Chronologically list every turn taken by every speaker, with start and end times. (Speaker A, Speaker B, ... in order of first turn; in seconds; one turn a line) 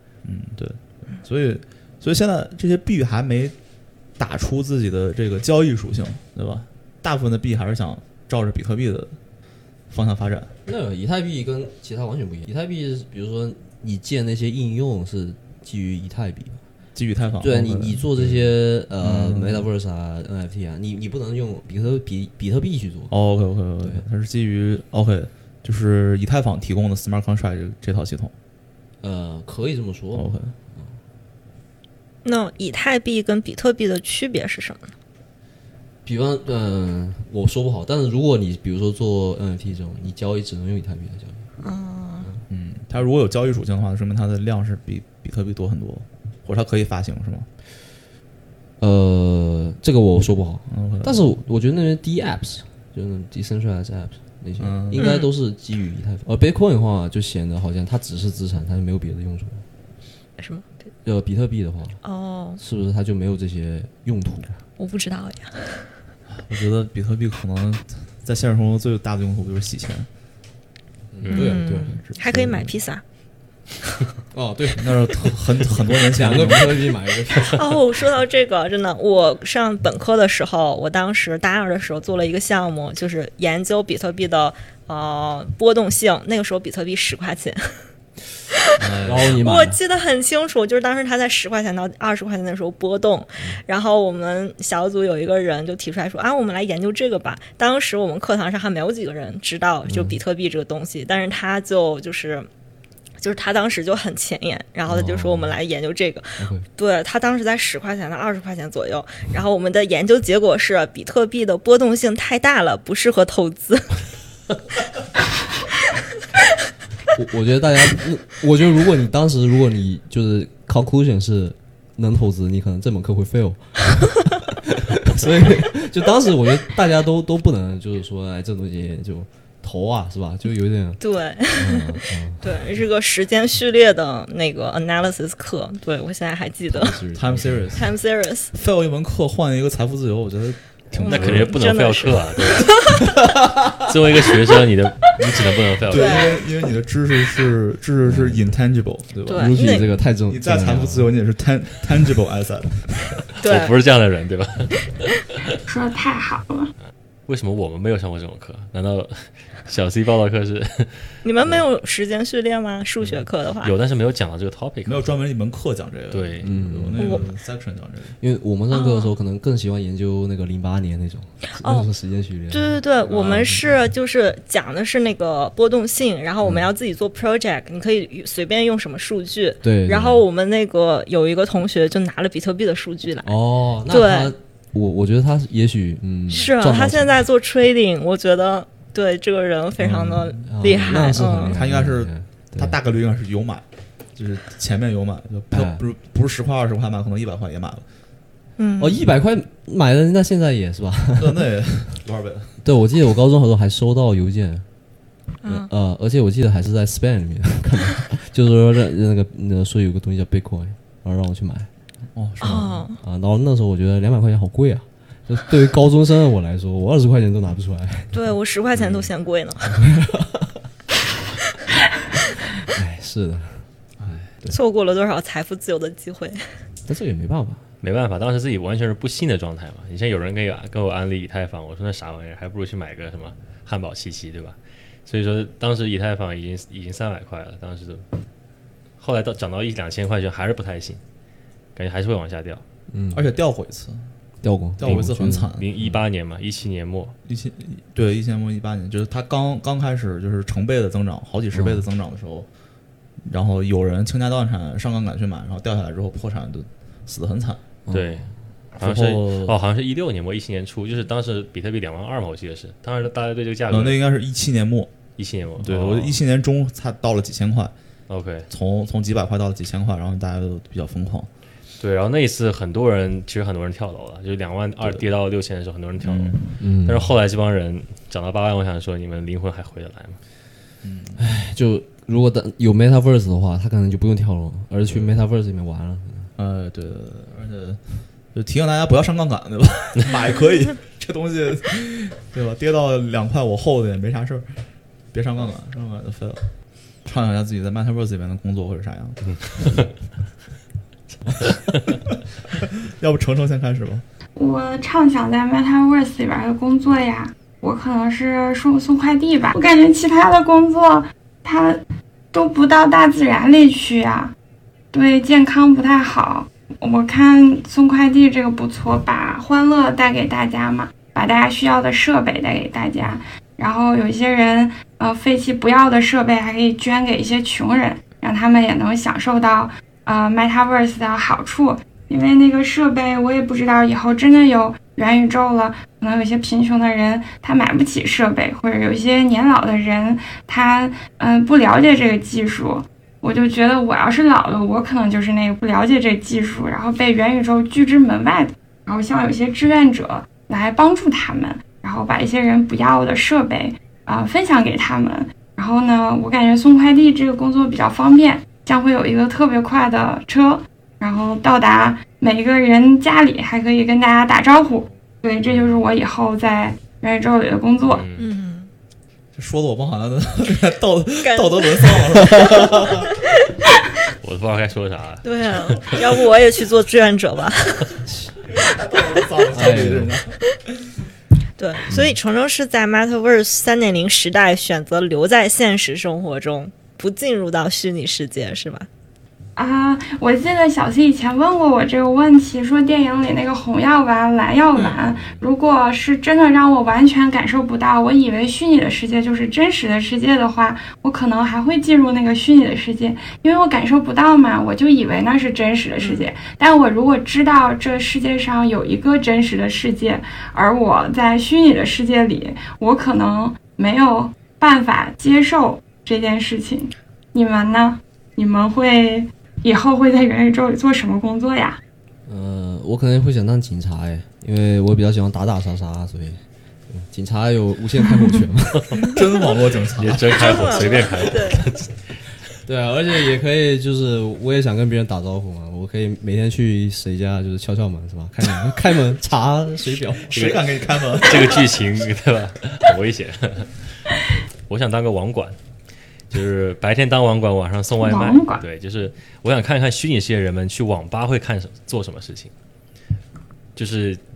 Speaker A: 0.2-3.5
Speaker A: 4.2-9.2
Speaker A: 9.9-10.5
Speaker B: 10.7-16.6
Speaker A: 16.9-19.6
Speaker B: 17.4-23.1
Speaker A: 23.1-28.3
Speaker B: 29.0-30.9
Speaker A: 30.1-30.5
Speaker C: 32.2-34.9
Speaker B: 36.0-41.5
Speaker C: 41.6-42.3
Speaker A: 42.5-47.5
Speaker B: 48.8-59.6
Speaker A: 50.7-51.2
Speaker A: 54.6-55.1
Speaker C: 55.0-55.3
Speaker C: 60.4-60.7
Speaker B: 61.0-62.0
Speaker C: 62.0-62.6
Speaker B: 62.6-64.6
Speaker C: 64.8-65.9
Speaker A: 66.3-70.1
Speaker B: 71.1-72.0
Speaker D: 71.2-71.5
Speaker C: 71.3-73.0
Speaker A: 71.4-72.7
Speaker B: 74.3-75.3
Speaker A: 74.8-76.9
Speaker B: 75.9-77.7
Speaker C: 77.4-87.8
Speaker C: 88.6-102.5
Speaker A: 88.8-89.4
Speaker B: 89.0-89.8
Speaker B: 99.9-100.2
Speaker C: 103.2-114.0
Speaker B: 104.9-105.5
Speaker B: 106.4-106.7
Speaker B: 117.1-132.5
Speaker C: 131.0-137.0
Speaker B: 136.7-137.8
Speaker A: 137.1-137.9
Speaker C: 137.8-138.5
Speaker A: 138.5-141.6
Speaker C: 140.9-143.1
Speaker D: 141.1-142.8
Speaker D: 143.8-146.4
Speaker A: 145.2-153.3
Speaker C: 145.9-146.4
Speaker B: 148.0-148.5
Speaker C: 149.3-149.9
Speaker B: 149.3-151.1
Speaker C: 153.4-153.7
Speaker D: 153.4-155.2
Speaker E: 155.7-156.7
Speaker D: 157.3-161.1
Speaker C: 161.2-163.7
Speaker D: 163.6-165.1
Speaker A: 164.9-168.2
Speaker D: 166.1-166.5
Speaker B: 166.4-167.2
Speaker C: 167.0-167.2
Speaker B: 168.2-173.6
Speaker C: 168.7-169.1
Speaker C: 171.5-171.9
Speaker C: 172.5-184.3
Speaker B: 179.6-180.2
Speaker B: 183.2-187.2
Speaker C: 186.3-191.6
Speaker A: 189.8-193.6
Speaker B: 190.4-192.8
Speaker A: 194.2-197.8
Speaker B: 195.5-195.8
Speaker C: 198.6-199.0
Speaker B: 198.8-201.5
Speaker A: 201.2-202.5
Speaker B: 202.6-204.6
Speaker C: 205.4-205.7
Speaker B: 205.4-211.7
Speaker A: 212.1-212.9
Speaker C: 212.4-213.0
Speaker B: 213.0-218.2
Speaker C: 218.1-219.8
Speaker B: 219.6-220.7
Speaker B: 222.7-223.6
Speaker A: 224.0-224.3
Speaker C: 224.5-226.4
Speaker B: 226.9-227.6
Speaker D: 227.8-238.0
Speaker D: 239.0-241.0
Speaker D: 241.8-242.6
Speaker B: 242.9-243.3
Speaker A: 243.1-244.0
Speaker B: 244.4-245.9
Speaker A: 244.8-245.7
Speaker D: 244.8-247.1
Speaker A: 247.3-252.5
Speaker B: 251.5-251.8
Speaker A: 253.3-257.6
Speaker B: 257.9-258.3
Speaker D: 257.9-264.0
Speaker A: 258.8-259.6
Speaker A: 263.7-264.9
Speaker D: 265.2-266.2
Speaker A: 265.6-267.7
Speaker D: 268.1-268.5
Speaker A: 268.5-271.3
Speaker D: 271.8-280.2
Speaker A: 276.0-276.5
Speaker B: 276.6-277.1
Speaker A: 280.8-281.2
Speaker B: 281.2-286.3
Speaker A: 286.4-287.8
Speaker A: 288.3-294.4
Speaker A: 295.1-296.4
Speaker A: 297.1-299.8
Speaker D: 299.3-299.9
Speaker D: 301.4-301.8
Speaker A: 302.6-304.0
Speaker E: 304.4-311.8
Speaker E: 312.3-314.3
Speaker E: 314.9-368.0
Speaker D: 365.5-365.8
Speaker D: 367.9-368.3
Speaker C: 368.2-368.7
Speaker A: 369.3-373.1
Speaker C: 371.2-373.8
Speaker D: 374.2-376.3
Speaker C: 375.2-378.0
Speaker A: 378.5-380.4
Speaker B: 379.5-380.2
Speaker C: 381.6-388.9
Speaker E: 389.6-421.8
Speaker D: 395.0-395.4
Speaker C: 406.0-406.3
Speaker B: 422.3-429.2
Speaker A: 429.0-430.4
Speaker D: 429.9-432.2
Speaker C: 430.2-431.6
Speaker B: 432.6-440.6
Speaker A: 440.2-441.7
Speaker D: 440.3-443.8
Speaker D: 444.7-445.6
Speaker D: 446.3-452.5
Speaker E: 448.0-448.6
Speaker D: 453.8-454.2